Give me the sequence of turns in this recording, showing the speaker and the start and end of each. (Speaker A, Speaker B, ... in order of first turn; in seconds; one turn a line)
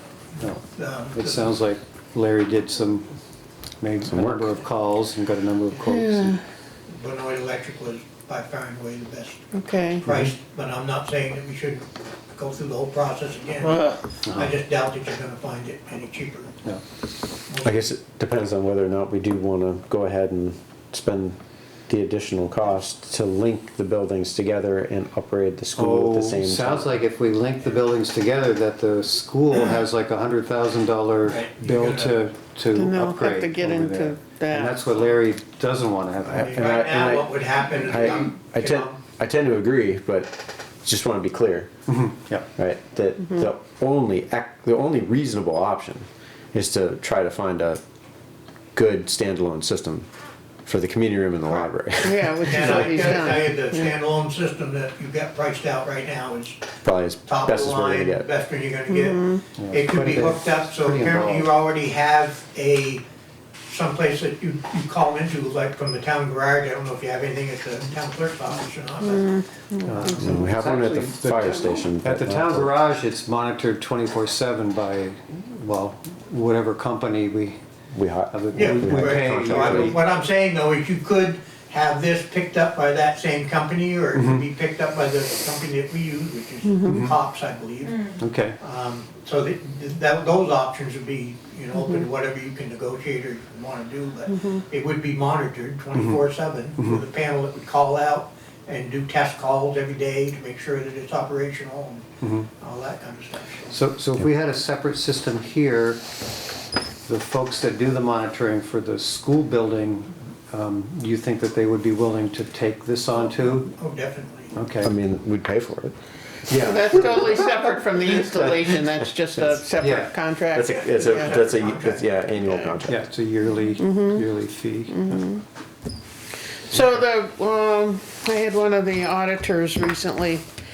Speaker A: 0.4-3.1
Speaker B: 0.8-1.5
Speaker A: 3.8-6.4
Speaker C: 4.1-4.5
Speaker D: 5.9-6.4
Speaker B: 6.9-9.4
Speaker D: 9.5-10.0
Speaker B: 10.0-16.5
Speaker A: 10.0-10.3
Speaker D: 13.6-14.0
Speaker A: 14.2-14.5
Speaker B: 17.5-17.9
Speaker C: 17.6-27.0
Speaker A: 25.7-36.6
Speaker B: 31.2-32.2
Speaker D: 32.7-34.8
Speaker B: 36.2-39.0
Speaker C: 36.3-41.7
Speaker A: 41.9-42.5
Speaker C: 42.6-47.8
Speaker D: 43.2-43.5
Speaker C: 48.7-50.1
Speaker C: 50.6-53.3
Speaker D: 52.0-53.9
Speaker B: 52.5-56.7
Speaker C: 56.8-58.2
Speaker B: 57.2-63.0
Speaker D: 58.9-59.4
Speaker A: 59.6-61.5
Speaker B: 63.7-69.3
Speaker D: 69.0-70.4
Speaker A: 69.8-77.6
Speaker C: 70.1-72.7
Speaker C: 77.9-80.0
Speaker A: 78.3-80.0
Speaker B: 78.5-88.1
Speaker A: 84.1-84.5
Speaker D: 86.6-87.1
Speaker A: 86.8-87.1
Speaker A: 88.2-88.6
Speaker B: 88.6-102.0
Speaker D: 91.7-92.0
Speaker D: 94.3-94.6
Speaker A: 95.9-96.2
Speaker A: 96.8-97.0
Speaker A: 102.2-102.5
Speaker B: 102.6-103.7
Speaker A: 103.7-106.0
Speaker A: 107.0-113.7
Speaker B: 113.1-114.5
Speaker A: 114.5-114.9
Speaker C: 114.8-115.9
Speaker C: 116.5-119.6
Speaker D: 116.5-121.4
Speaker A: 119.8-120.1
Speaker C: 120.5-123.0
Speaker B: 120.6-122.1
Speaker D: 122.4-122.8
Speaker A: 122.8-125.2
Speaker D: 123.8-124.2
Speaker D: 124.9-125.4
Speaker D: 126.7-130.4